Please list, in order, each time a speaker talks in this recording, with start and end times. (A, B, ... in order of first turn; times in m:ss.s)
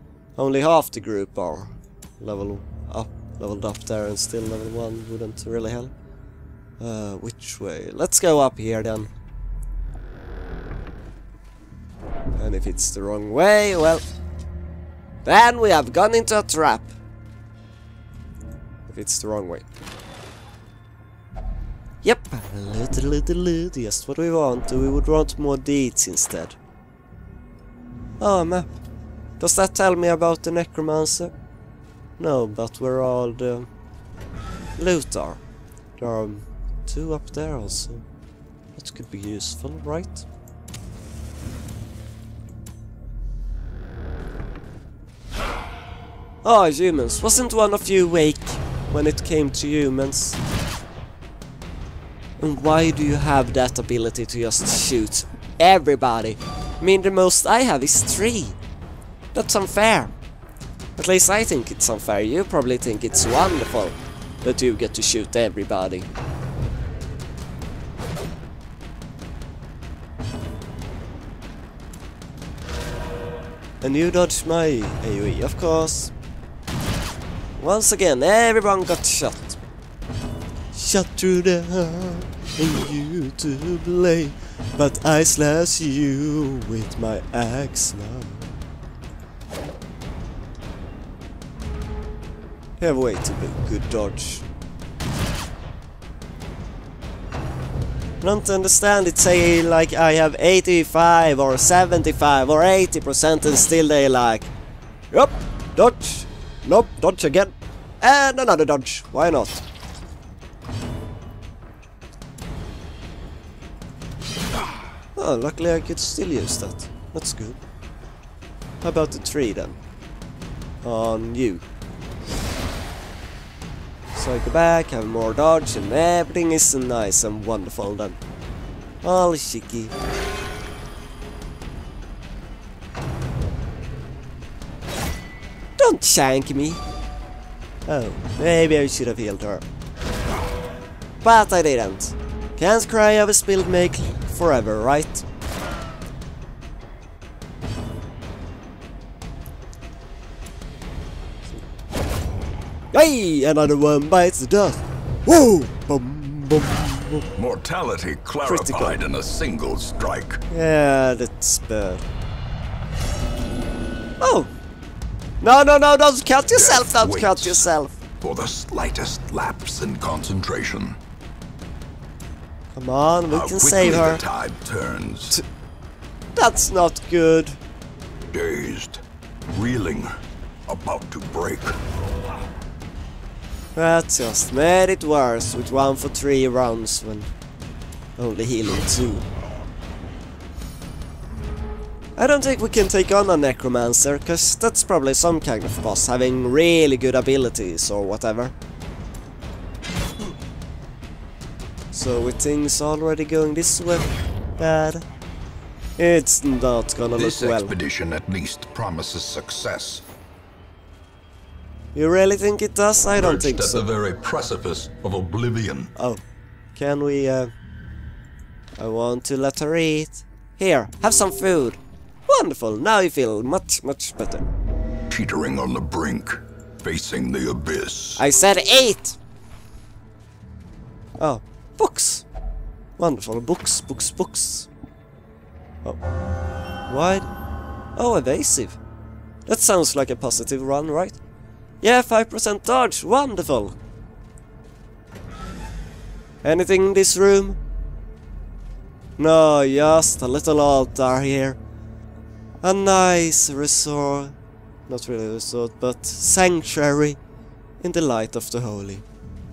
0:00.4-0:05.9 A
0:06.8-0:09.1 A
0:12.4-0:14.0 A
0:15.2-0:16.9 A
0:18.9-0:19.7 A
0:22.0-0:26.6 A
0:28.2-0:28.8 A
0:29.4-0:31.3 A
0:32.2-0:33.7 A
0:34.8-0:35.4 A
0:36.0-0:38.0 A
0:38.8-0:40.2 A
0:46.4-0:50.4 A
0:52.4-0:58.6 A
0:59.3-1:00.1 A
1:01.0-1:06.1 A
1:13.8-1:16.1 A
1:17.6-1:19.6 A
1:20.7-1:28.5 A
1:32.8-1:34.4 A
1:38.2-1:44.5 A
1:45.1-1:49.6 A
1:55.2-1:57.6 A
1:58.8-1:59.8 A
2:00.8-2:01.6 A
2:04.1-2:08.2 A
2:09.0-2:09.9 A
2:15.8-2:16.8 A
2:17.8-2:19.6 A
2:21.2-2:25.2 A
2:32.9-2:37.3 A
2:37.4-2:40.4 B
2:38.4-2:39.0 A
2:40.5-2:42.0 A
2:44.2-2:44.5 A
2:45.4-2:48.0 A
2:46.5-2:47.6 B
2:48.2-2:51.0 B
2:52.7-2:54.2 A
2:53.3-2:55.4 B
2:56.4-2:57.6 A
2:58.3-2:59.0 B
2:59.5-3:00.1 B
3:00.7-3:01.8 B
3:03.8-3:07.3 A
3:08.2-3:09.2 A
3:12.2-3:18.5 A
3:21.9-3:25.0 A
3:26.0-3:27.7 A
3:27.1-3:30.0 B
3:31.9-3:33.8 A
3:33.2-3:35.9 B
3:36.0-3:36.2 A
3:36.7-3:37.5 A
3:38.8-3:44.5 A
3:45.1-3:48.2 B
3:48.2-3:49.2 A
3:51.2-3:52.2 A
3:53.0-3:54.7 A
3:56.9-3:57.3 A
3:58.0-3:58.8 A
3:59.4-4:01.2 A
4:01.8-4:03.8 A
4:06.4-4:07.6 A
4:09.2-4:11.6 A
4:12.6-4:14.3 A
4:14.9-4:17.2 A
4:17.8-4:19.0 A